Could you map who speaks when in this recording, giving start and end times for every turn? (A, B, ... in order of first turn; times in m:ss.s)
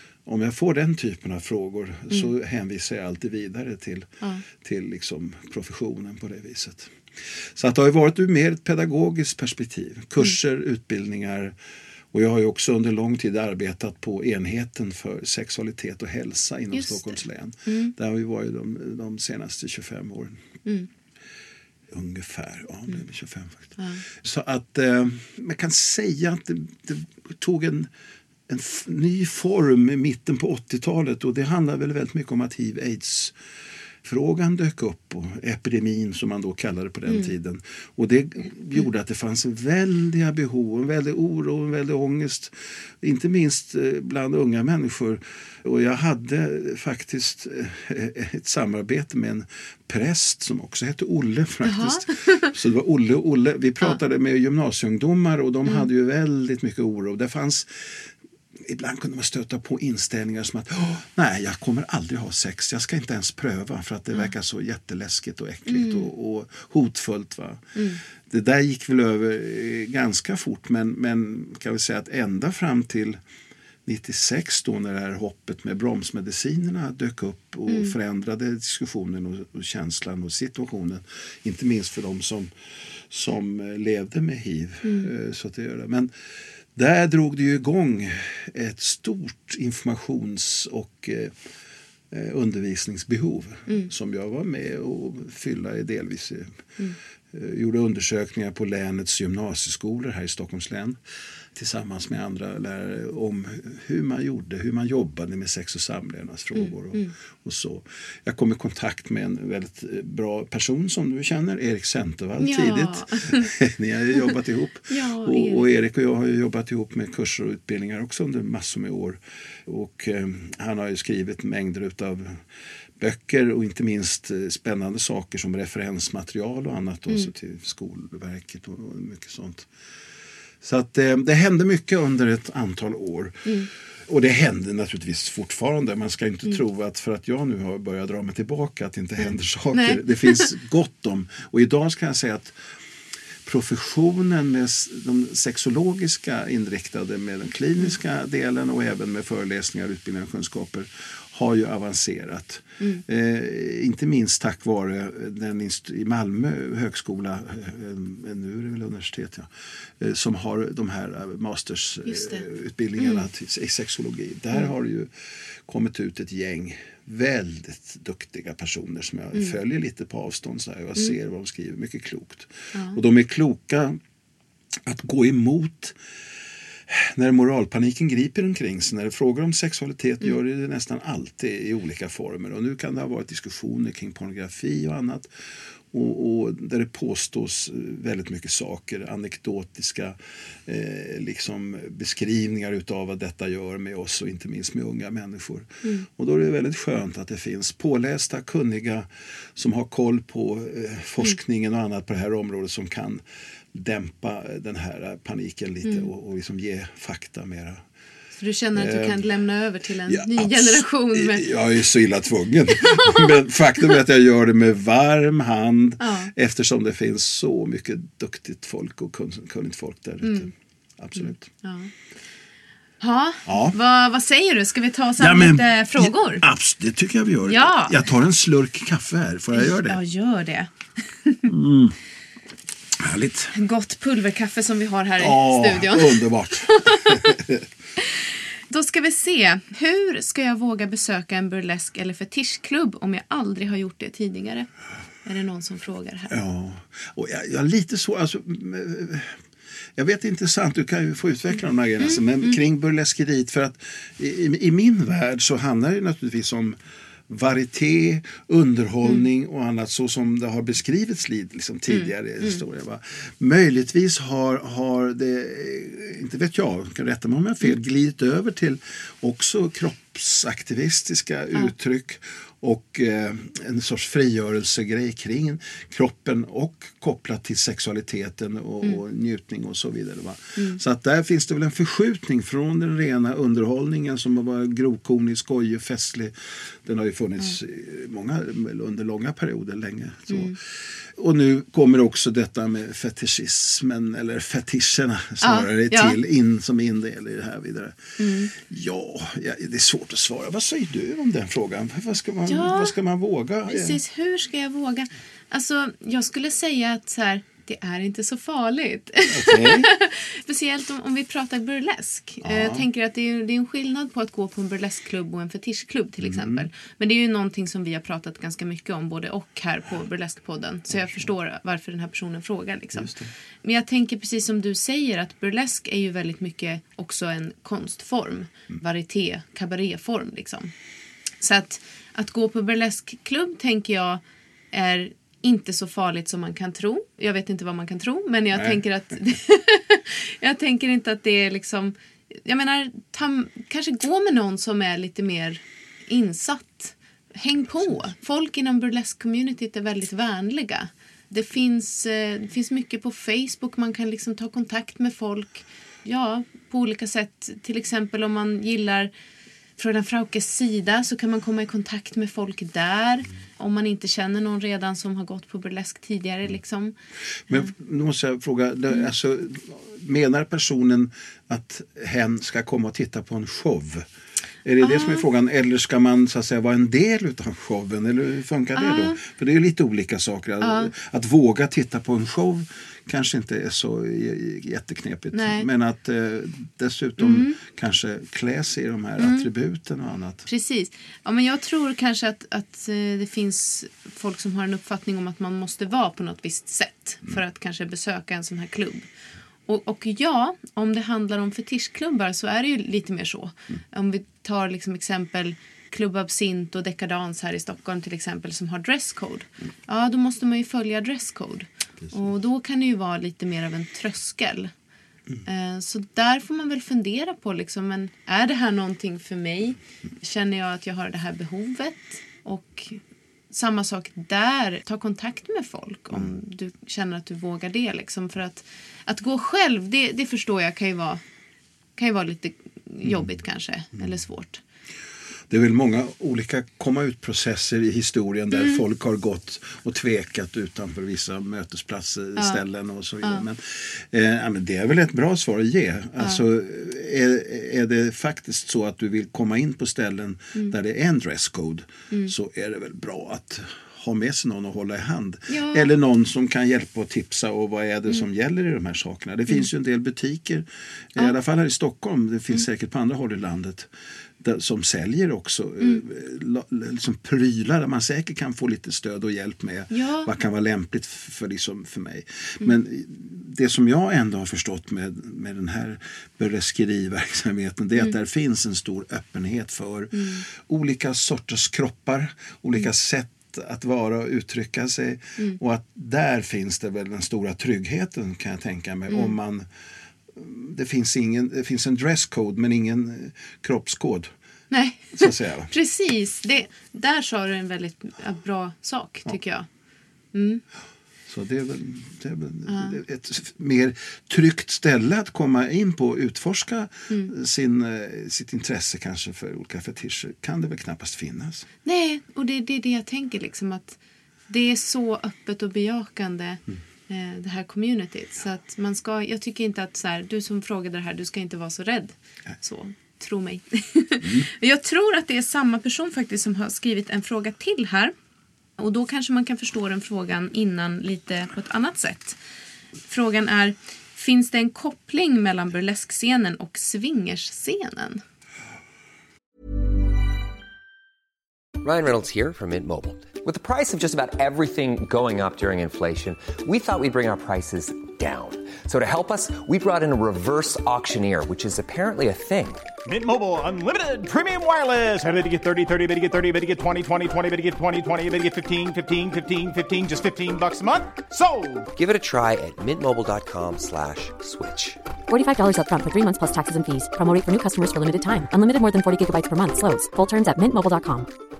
0:00.2-0:06.9 A
0:07.6-0:11.5 A
0:12.1-0:20.4 A
0:16.7-0:17.9 B
0:21.9-0:27.9 A
0:23.8-0:24.0 B
0:28.5-0:33.3 A
0:34.0-0:57.7 A
0:37.1-0:37.3 B
0:51.6-0:52.5 B
0:58.7-1:07.6 A
1:05.7-1:06.1 B
1:07.7-1:08.0 B
1:08.3-1:13.2 A
1:13.8-1:22.5 A
1:17.7-1:17.9 B
1:23.1-1:26.1 A
1:24.8-1:25.1 B
1:26.8-1:31.3 A
1:32.1-1:36.5 A
1:37.3-1:41.0 A
1:41.5-2:02.4 A
1:46.5-1:47.1 B
1:52.4-1:53.5 B
1:54.9-1:55.6 B
2:03.0-2:09.7 A
2:10.6-2:13.5 A
2:14.1-2:22.5 A
2:19.2-2:20.4 B
2:23.4-2:39.5 A
2:40.0-2:45.1 A
2:42.0-2:42.4 B
2:43.0-2:43.3 B
2:45.7-2:54.0 A
2:52.7-2:53.0 B
2:54.8-2:56.0 A
2:56.9-3:05.3 A
3:05.9-3:23.2 A
3:23.7-3:27.8 A
3:28.4-3:31.5 B
3:28.7-3:29.2 A
3:30.1-3:41.5 A
3:32.8-3:33.3 B
3:36.0-3:36.3 B
3:40.2-3:40.5 B
3:41.2-3:41.9 B
3:43.0-3:46.4 B
3:43.4-3:43.8 A
3:45.2-3:50.0 A
3:47.4-3:48.0 B
3:49.5-3:51.5 B
3:51.5-3:52.0 A
3:53.0-3:53.5 A
3:53.5-3:56.2 B
3:55.2-3:57.6 A
3:56.8-3:57.3 B
3:58.7-4:04.7 B
4:05.2-4:06.4 B
4:06.3-4:09.4 A
4:10.0-4:16.8 A
4:12.0-4:12.6 B
4:17.3-4:46.3 A
4:21.9-4:22.6 B
4:46.8-4:50.6 A
4:50.3-4:50.6 B
4:51.2-5:04.0 A
4:55.4-4:56.2 B
4:58.2-4:58.5 B
5:02.5-5:02.9 B
5:03.7-5:23.1 B
5:09.3-5:09.9 A
5:12.4-5:12.8 A
5:16.2-5:16.7 A
5:20.9-5:21.3 A
5:22.9-5:23.3 A
5:23.6-5:30.7 B
5:31.4-5:59.1 B
5:38.5-5:38.8 A
5:59.8-6:06.9 B
6:07.5-6:14.0 A
6:14.6-6:30.4 A
6:14.8-6:15.2 B
6:18.8-6:19.2 B
6:20.6-6:20.9 B
6:25.3-6:25.7 B
6:27.2-6:27.6 B
6:29.2-6:29.5 B
6:30.4-6:39.1 B
6:39.6-6:54.7 B
6:55.4-7:03.0 B
7:03.5-7:11.2 B
7:12.0-7:14.6 B
7:13.0-7:13.3 A
7:15.5-7:43.9 A
7:18.5-7:18.8 B
7:35.5-7:35.9 B
7:44.4-8:09.6 A
7:49.9-7:50.3 B
8:00.1-8:00.4 B
8:09.1-8:09.3 B
8:10.3-8:14.3 A
8:14.7-8:19.6 B
8:15.1-8:15.7 A
8:20.3-8:20.6 B
8:21.3-8:31.7 A
8:22.7-8:23.0 B
8:31.8-8:48.1 B
8:48.8-8:52.4 B
8:53.0-8:58.2 B
9:01.8-9:12.8 C
9:13.0-9:21.9 D
9:21.9-9:25.0 C
9:25.3-9:31.3 E